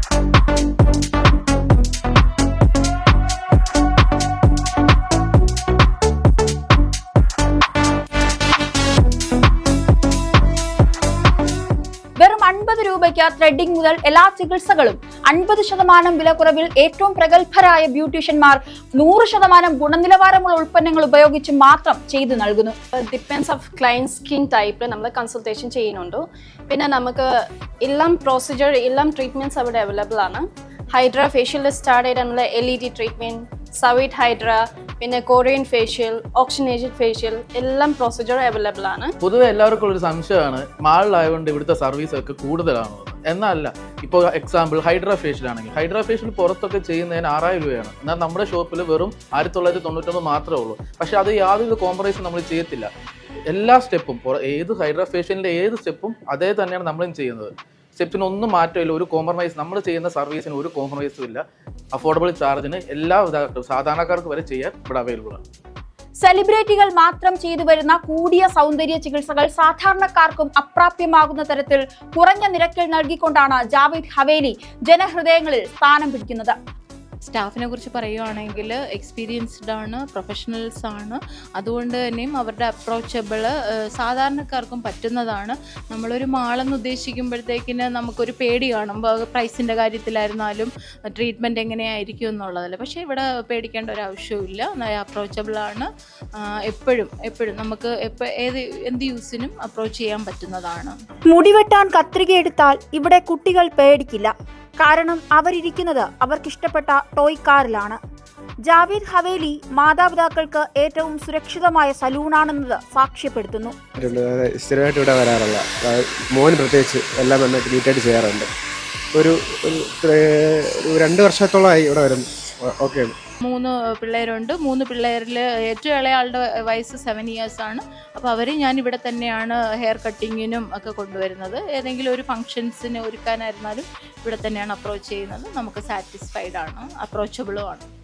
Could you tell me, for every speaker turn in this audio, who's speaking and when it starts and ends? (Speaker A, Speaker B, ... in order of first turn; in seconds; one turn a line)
Speaker A: 12.2-22.7
Speaker B: 22.9-39.1
Speaker C: 39.2-52.9
Speaker C: 53.5-65.4
Speaker A: 66.2-76.6
Speaker D: 77.2-101.0
Speaker A: 101.3-108.0
Speaker A: 108.7-113.8
Speaker E: 114.0-118.5
Speaker E: 119.1-123.1
Speaker D: 123.4-137.8